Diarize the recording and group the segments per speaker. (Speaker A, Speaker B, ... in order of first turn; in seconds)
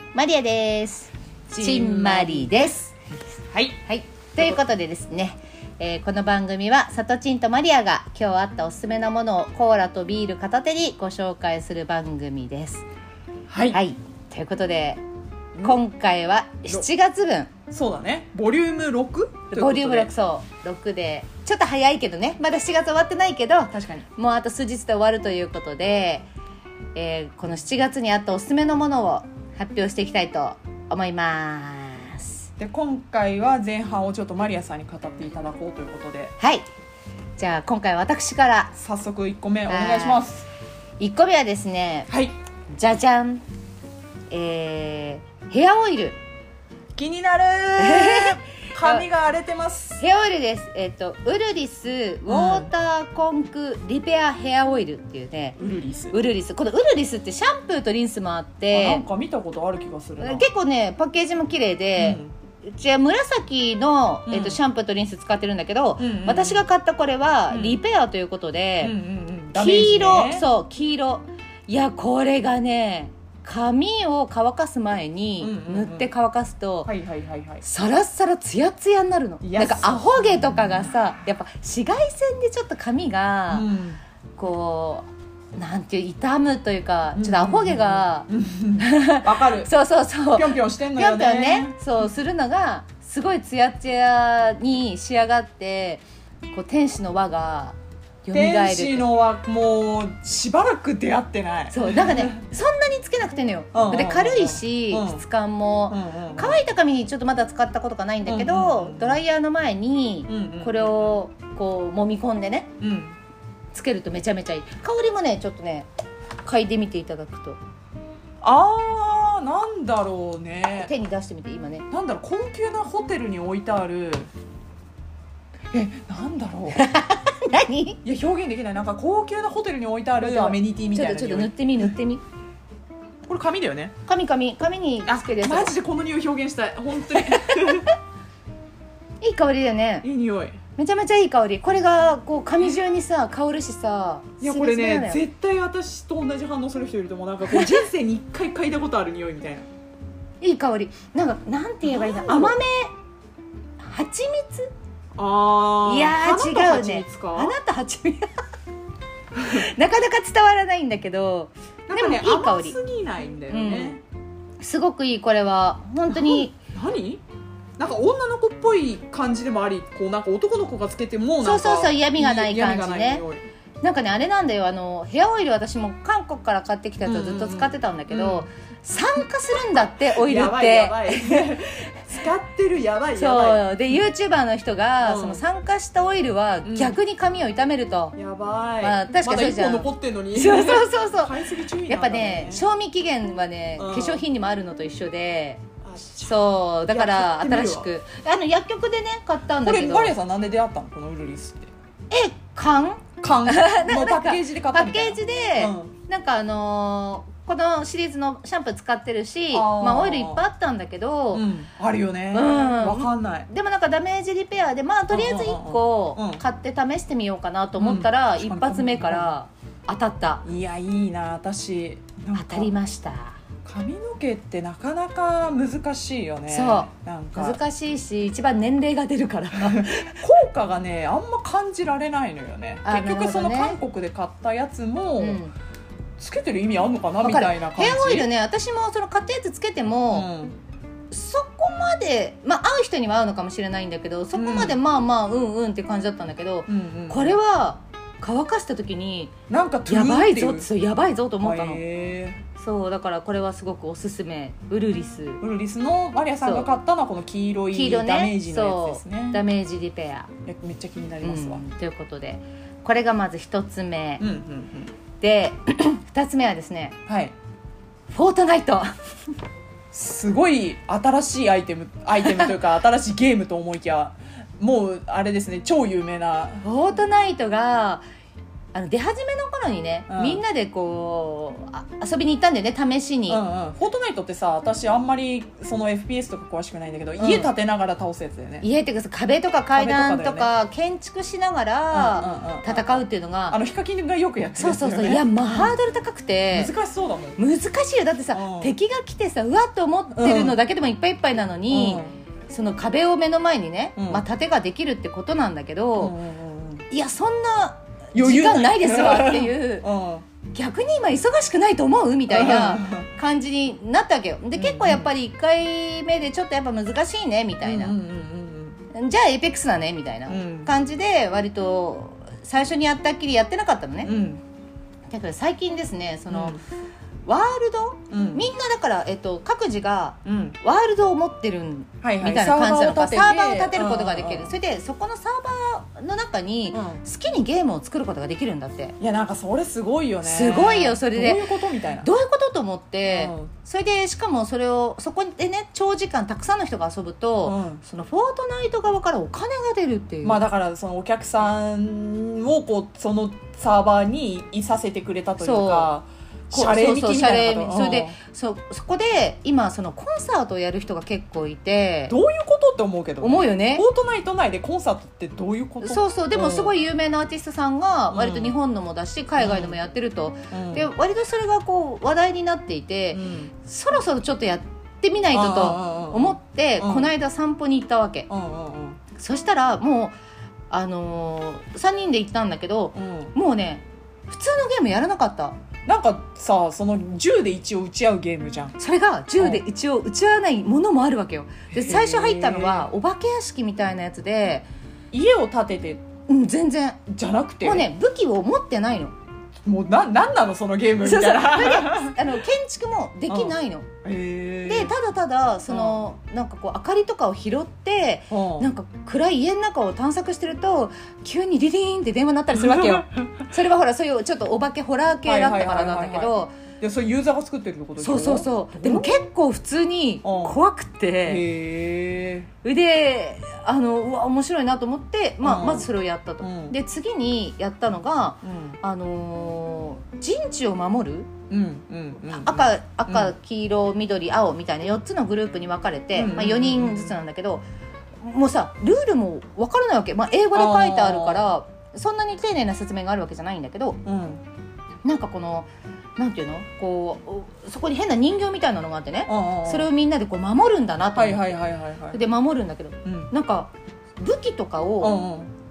Speaker A: 0.1-2.9, 3.8-12.8, 13.7-15.0, 15.6-17.5, 19.5-26.3, 26.9-32.5, 36.4-36.7, 37.4-38.7, 39.7-40.3, 41.0-42.1, 42.7-43.4, 44.3-46.2, 47.8-49.0, 50.0-55.6, 56.1-59.0, 60.2-69.0, 69.5-76.9, 77.6-83.7, 84.4-88.3, 88.8-99.1, 101.7-112.7, 113.7-115.9, 116.4-117.6, 120.7-121.8, 126.8-128.0, 130.2-132.2, 134.1-135.8, 137.2-137.7, 139.2-140.1, 140.8-145.2, 150.4-152.9, 153.8-154.7, 155.8-158.3, 159.5-162.8, 163.5-164.0, 164.6-166.6, 171.4-173.2, 173.8-181.5, 183.2-188.2, 188.8-195.6, 196.2-200.2, 202.1-211.5, 212.3-220.4, 222.3-223.4, 226.5-230.2, 232.8-233.8, 235.2-235.5, 237.2-240.3, 241.1-249.3, 249.9-251.8, 252.6-255.4, 256.4-256.7, 257.7-260.3, 261.2-264.2, 265.2-266.9, 268.1-268.9, 276.6-278.0, 278.7-283.4, 287.2-287.5, 288.6-293.6, 294.6-296.7, 297.4-306.1, 306.9-309.9, 310.5-317.9, 318.9-324.1, 325.1-326.6, 327.2-338.9, 340.2-341.4, 342.0-350.4, 355.4-355.9, 356.5-362.1, 363.2-363.8, 365.8-378.3, 379.2-380.1, 380.7-385.6, 388.8-394.7, 396.3-397.0, 397.6-399.1, 401.0-403.9, 404.6-416.5, 418.0-421.4, 422.6-431.3, 432.3-437.6, 438.2-444.0, 445.0-451.5, 452.1-455.2
Speaker B: 1.5-2.7, 3.5-3.8, 13.5-13.8, 17.7-20.1, 23.7-24.1, 32.6-36.3, 38.8-40.5, 42.1-42.3, 47.0-50.0, 52.3-52.7, 55.6-56.2, 58.7-60.4, 62.0-62.3, 64.3-64.6, 66.0-66.6, 67.5-67.8, 68.8-70.5, 75.4-76.1, 76.9-77.6, 79.4-80.9, 83.5-84.0, 87.2-89.7, 90.3-91.8, 98.3-102.4, 103.7-105.2, 105.9-106.6, 108.2-109.2, 110.3-111.2, 112.8-113.2, 118.4-120.9, 121.9-124.3, 125.7-126.8, 128.0-131.9, 133.2-133.9, 135.1-137.9, 140.0-140.6, 144.4-149.7, 151.8-152.6, 155.2-157.6, 159.3-159.6, 161.9-164.0, 166.1-167.2, 167.8-173.4, 177.0-178.5, 179.8-183.8, 185.0-185.4, 186.7-187.0, 188.2-192.7, 193.8-194.2, 195.8-197.9, 199.6-201.7, 203.2-205.9, 209.5-210.4, 211.3-213.5, 215.1-216.4, 217.8-219.3, 220.4-222.7, 223.7-227.6, 229.6-235.4, 236.2-238.3, 240.1-240.6, 244.3-244.8, 246.7-247.4, 249.5-250.7, 251.4-252.4, 255.4-259.4, 260.4-261.6, 264.2-264.9, 267.1-267.3, 269.9-276.6, 280.1-280.4, 283.3-288.6, 289.7-290.5, 291.9-295.7, 296.5-297.4, 298.3-298.8, 300.1-300.6, 301.7-302.1, 304.0-304.2, 306.0-306.8, 308.1-310.2, 312.3-313.1, 314.6-315.1, 317.6-318.8, 320.3-320.7, 324.0-324.4, 326.3-326.6, 328.1-328.5, 330.2-330.6, 332.0-334.5, 336.7-337.0, 339.0-342.1, 343.1-343.5, 347.4-347.8, 350.2-358.2, 362.1-366.8, 368.1-368.6, 369.4-369.8, 370.5-370.9, 373.1-373.5, 375.3-377.1, 378.3-379.0, 382.9-383.3, 385.9-388.8, 389.4-389.6, 391.7-392.9, 395.1-396.0, 397.1-397.9, 399.6-402.3, 403.3-404.9, 405.7-406.1, 408.3-408.7, 412.5-413.1, 415.2-419.2, 420.2-420.6, 421.2-422.5, 425.4-425.9, 426.4-426.8, 428.4-428.8, 431.5-433.3, 436.1-437.2, 440.5-441.5, 444.0-444.4, 449.3-449.9, 451.1-452.2, 453.0-453.3, 455.0-455.5